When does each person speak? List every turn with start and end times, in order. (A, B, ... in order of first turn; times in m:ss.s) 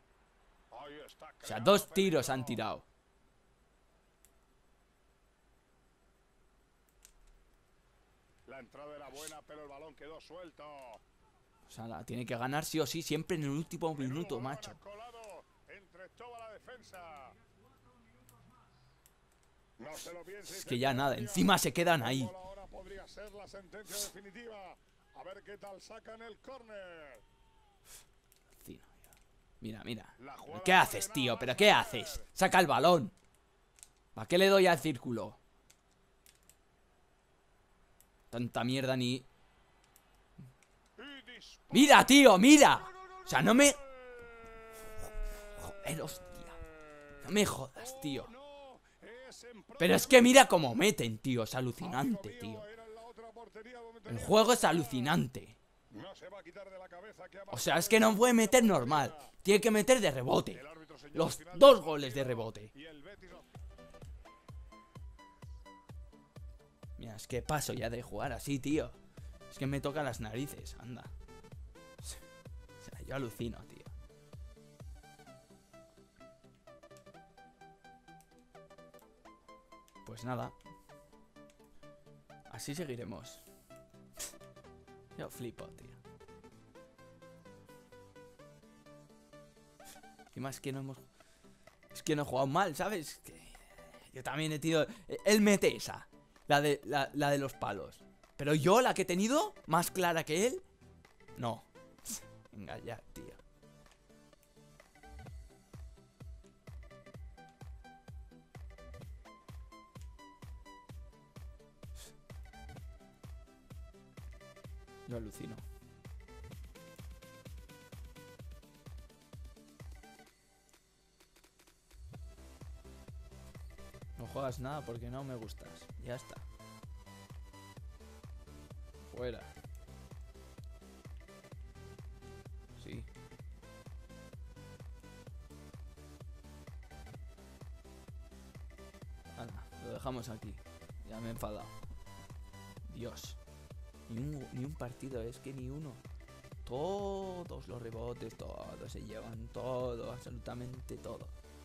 0:00.7-0:02.6 A
0:01.4-0:02.9 B
0:08.5-0:11.0 A
0:11.6-0:14.8 B
0:13.9-0:17.4 A
0:19.8-0:27.2 A
0:20.4-0:22.3 B
0:28.6-0:29.1 B
0:29.6-0:33.1 B
0:30.2-0:32.3 A
0:34.2-0:35.4 B
0:38.3-0:39.3 B
0:41.0-0:44.4 A
0:41.7-0:43.8 B
0:45.6-0:46.6 B
0:47.2-0:48.3 B
0:47.8-0:50.4 A
0:49.8-0:52.6 B
0:51.8-0:55.2 A
0:54.1-0:55.6 B
0:55.9-0:59.3 A
0:57.5-1:00.6 B
1:00.5-1:03.6 A
1:01.1-1:02.7 B
1:07.0-1:09.0 B
1:09.5-1:11.1 B
1:12.8-1:13.9 B
1:20.0-1:20.6 B
1:22.5-1:23.5 B
1:25.2-1:26.0 B
1:30.3-1:31.0 B
1:31.9-1:40.6 B
1:41.4-1:43.4 B
1:55.1-1:55.6 B
2:04.2-2:06.4 B
2:09.1-2:09.5 B
2:12.8-2:13.1 B
2:19.3-2:21.7 B
2:22.9-2:23.4 B
2:24.1-2:26.0 B
2:26.6-2:31.4 B